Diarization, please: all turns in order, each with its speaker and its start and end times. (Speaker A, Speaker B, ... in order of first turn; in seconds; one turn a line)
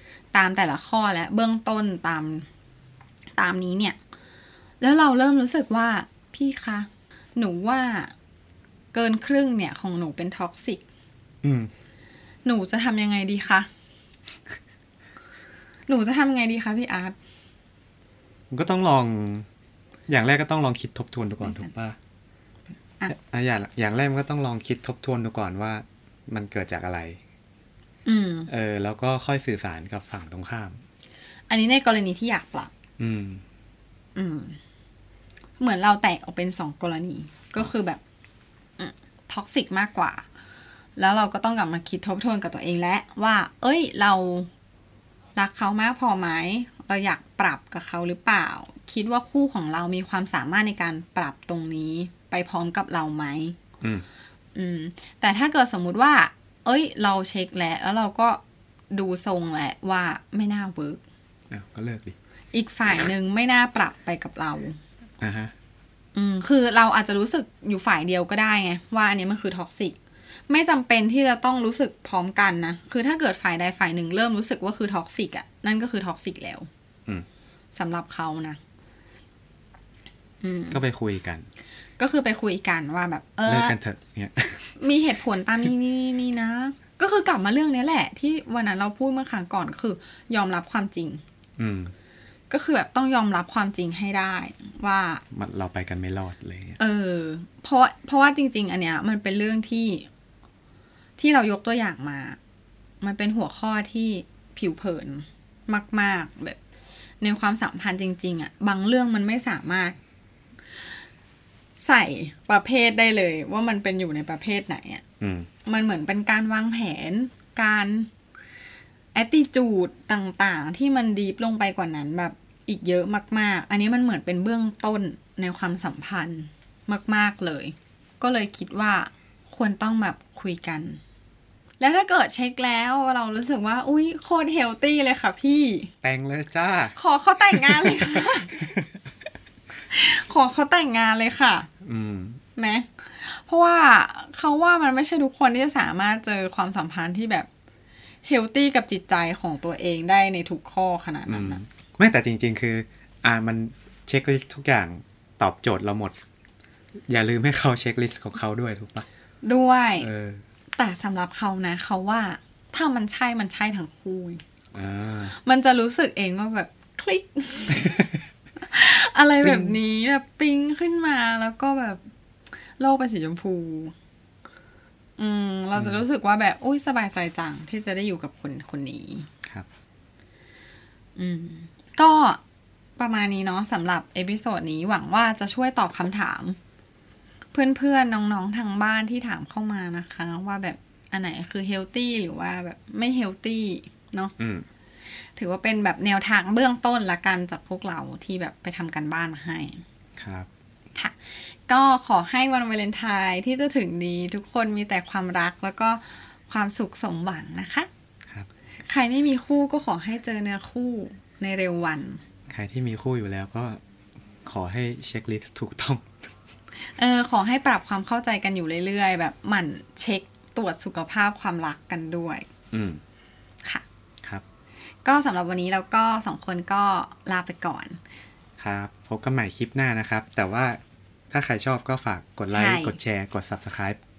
Speaker A: 0.3-2.5
Speaker A: 3.4-4.0
Speaker A: 4.8-8.1
Speaker A: 8.9-10.8
Speaker B: 11.4-11.7
Speaker A: 12.4-13.7
Speaker A: 15.9-17.2
Speaker B: 18.5-19.5
Speaker B: 20.1-22.0
Speaker A: 21.4-21.7
Speaker B: 23.1-27.2
Speaker A: 28.1-28.5
Speaker B: 28.5-30.8
Speaker A: 31.5-32.7
Speaker B: 33.0-33.4
Speaker A: 34.2-34.6
Speaker A: 35.6-38.0
Speaker A: 38.8-40.2
Speaker A: 41.0-44.5
Speaker A: 45.4-53.6
Speaker B: 53.8-54.1
Speaker A: 54.5-58.4
Speaker A: 58.9-61.0
Speaker B: 61.5-62.2
Speaker A: 62.5-64.8
Speaker B: 65.2-65.5
Speaker A: 66.2-70.0
Speaker A: 70.5-76.7
Speaker A: 77.8-78.6
Speaker A: 80.4-80.8
Speaker B: 80.7-81.5
Speaker A: 82.0-83.8
Speaker B: 83.5-84.8
Speaker A: 84.8-91.2
Speaker B: 91.6-91.9
Speaker A: 92.5-95.2
Speaker B: 95.3-96.8
Speaker A: 96.8-100.1
Speaker A: 101.2-102.4
Speaker A: 103.0-106.6
Speaker A: 107.2-110.0
Speaker A: 111.8-115.0
Speaker B: 115.2-115.5
Speaker A: 115.7-118.1
Speaker A: 119.2-131.0
Speaker A: 131.8-135.9
Speaker B: 136.0-137.0
Speaker A: 137.0-138.7
Speaker B: 137.5-139.1
Speaker A: 139.9-141.7
Speaker B: 141.8-142.4
Speaker A: 142.6-147.5
Speaker A: 148.2-151.6
Speaker B: 151.3-156.2
Speaker B: 157.1-159.1
Speaker A: 159.4-160.1
Speaker B: 160.0-160.4
Speaker A: 160.8-164.4
Speaker B: 164.7-165.4
Speaker A: 165.4-168.0
Speaker B: 167.8-168.2
Speaker A: 168.6-172.0
Speaker B: 169.4-169.8
Speaker A: 172.8-173.9
Speaker A: 175.2-179.3
Speaker B: 175.8-176.0
Speaker A: 181.2-182.4
Speaker A: 183.0-186.6
Speaker A: 187.5-194.3
Speaker B: 194.4-194.7
Speaker A: 195.4-199.8
Speaker B: 200.2-200.5
Speaker A: 201.0-207.9
Speaker A: 208.9-212.2
Speaker B: 212.5-213.8
Speaker B: 214.4-216.3
Speaker A: 217.0-222.5
Speaker B: 222.7-223.0
Speaker A: 225.1-228.0
Speaker B: 228.6-230.8
Speaker B: 231.3-234.0
Speaker A: 232.5-233.0